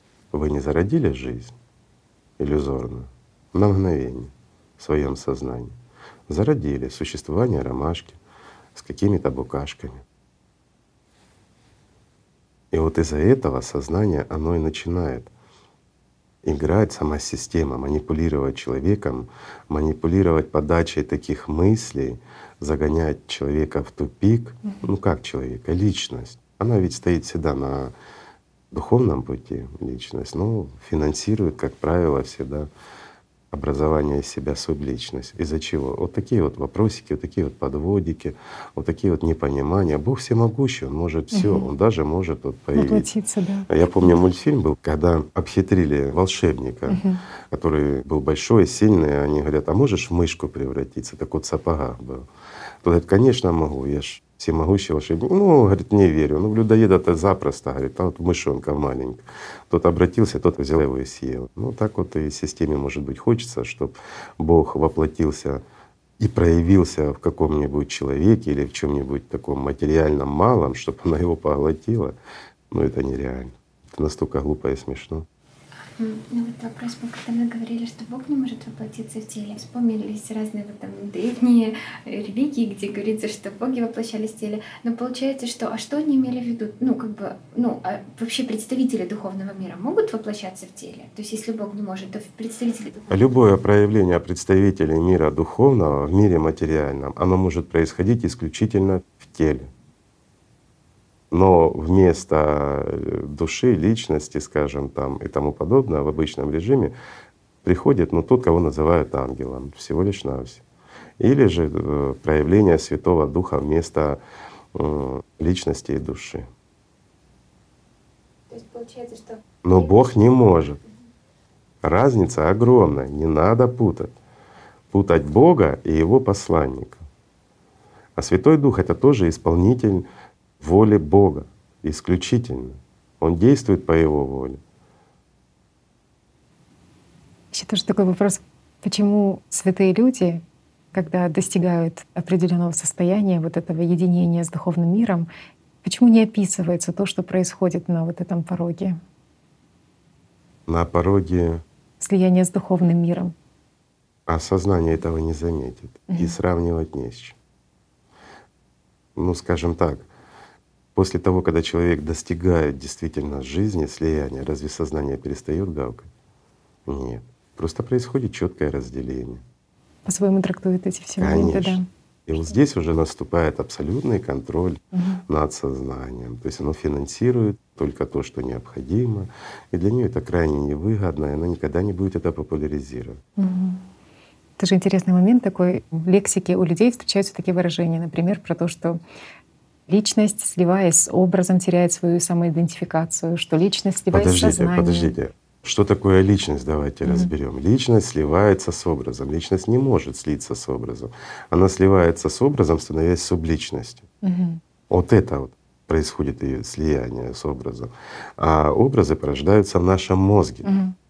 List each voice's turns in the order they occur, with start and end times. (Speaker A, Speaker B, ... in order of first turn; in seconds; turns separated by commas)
Speaker A: 0.3-1.5, Speaker A: 2.4-5.7, Speaker A: 6.3-8.2, Speaker A: 8.7-10.0, Speaker A: 12.7-15.3, Speaker A: 16.4-27.9, Speaker A: 28.7-32.7, Speaker A: 33.5-43.1, Speaker B: 41.3-41.7, Speaker B: 42.7-44.2, Speaker A: 43.7-52.2, Speaker B: 46.9-47.2, Speaker A: 52.8-65.6, Speaker A: 66.2-72.2, Speaker A: 72.7-75.3, Speaker C: 76.0-93.2, Speaker A: 93.1-99.7, Speaker A: 101.3-106.9, Speaker A: 107.6-110.6, Speaker A: 111.2-114.2, Speaker A: 114.7-116.5, Speaker C: 118.5-119.9, Speaker A: 119.6-120.8, Speaker A: 121.8-124.1, Speaker A: 124.9-127.0, Speaker A: 128.2-130.1, Speaker A: 130.6-134.6, Speaker B: 137.5-140.4, Speaker B: 140.9-145.3, Speaker B: 145.8-149.0, Speaker A: 150.7-151.6, Speaker B: 152.0-153.3, Speaker A: 154.3-157.4, Speaker B: 156.1-156.4, Speaker A: 159.1-160.1, Speaker A: 160.9-166.1, Speaker A: 166.8-169.4, Speaker B: 170.1-171.8, Speaker A: 171.2-183.2, Speaker B: 174.9-175.2, Speaker B: 183.4-183.8, Speaker B: 184.6-189.0, Speaker B: 189.9-195.1, Speaker A: 194.1-204.1, Speaker B: 197.1-197.3, Speaker B: 204.2-204.6, Speaker A: 204.9-210.7, Speaker B: 210.6-210.9